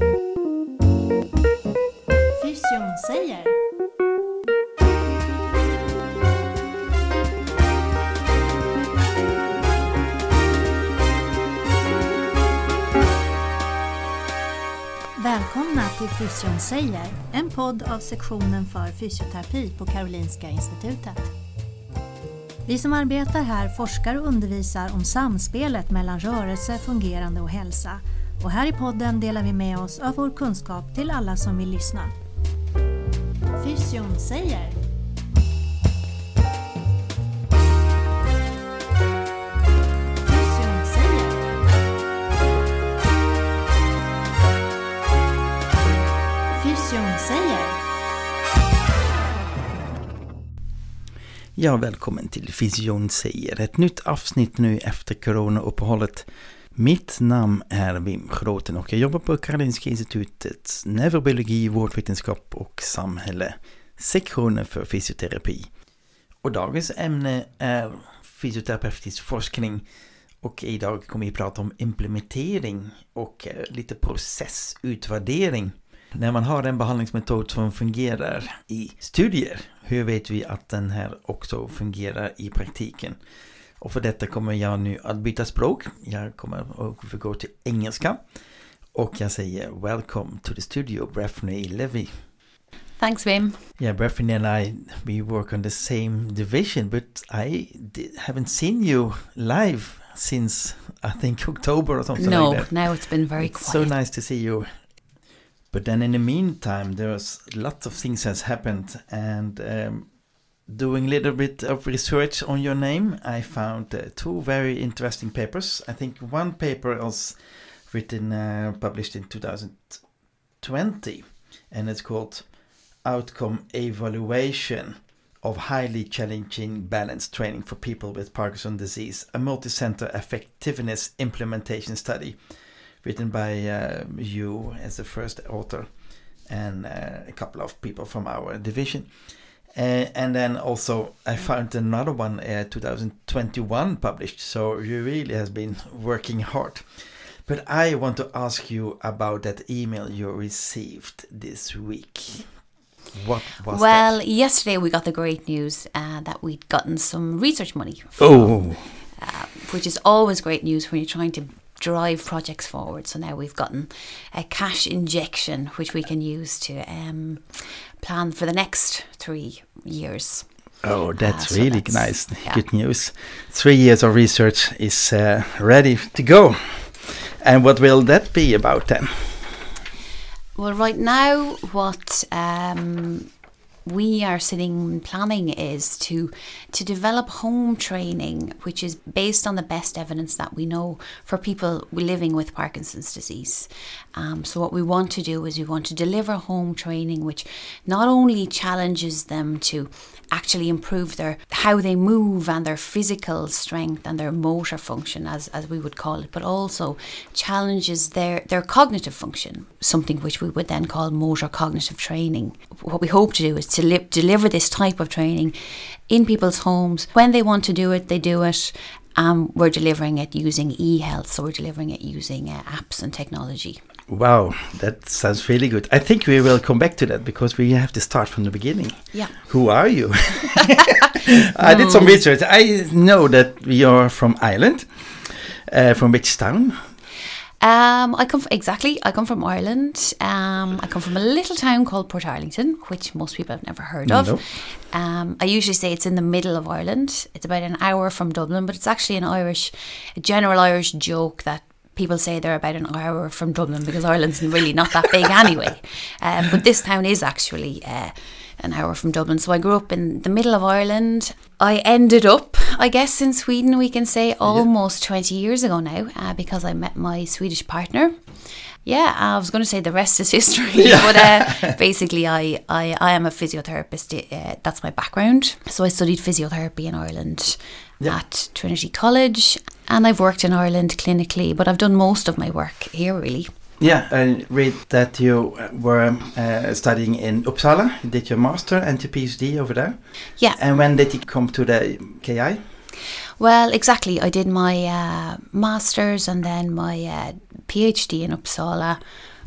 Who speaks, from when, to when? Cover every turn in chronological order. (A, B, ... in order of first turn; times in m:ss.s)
0:02.4-0:03.6 A
0:15.2-0:21.2 A
0:22.7-0:32.1 A
0:33.6-0:34.8 A
0:40.2-0:41.5 A
0:46.5-0:47.8 A
0:51.6-1:05.7 B
1:06.4-1:09.8 B
1:10.4-1:23.2 B
1:23.8-1:28.2 B
1:28.9-1:32.2 B
1:33.0-1:33.6 C
1:33.8-1:45.0 B
1:42.2-1:43.9 C
1:45.7-2:00.0 B
2:00.6-2:02.5 B
2:03.0-2:12.4 B
2:13.0-2:15.9 B
2:16.4-2:19.1 B
2:19.7-2:26.9 B
2:27.4-2:32.6 B
2:33.1-2:34.1 B
2:33.7-2:50.5 C
2:38.2-2:38.9 B
2:50.8-2:59.6 B
2:51.2-2:52.6 C
3:00.6-3:03.3 C
3:03.8-3:35.5 C
3:36.1-3:43.8 C
3:44.1-3:56.8 B
3:51.6-3:52.2 C
3:57.6-4:28.1 C
4:04.0-4:04.5 B
4:28.8-4:43.5 C
4:30.8-4:31.7 B
4:43.8-4:50.0 B
4:50.5-4:52.6 B
4:53.4-4:59.0 C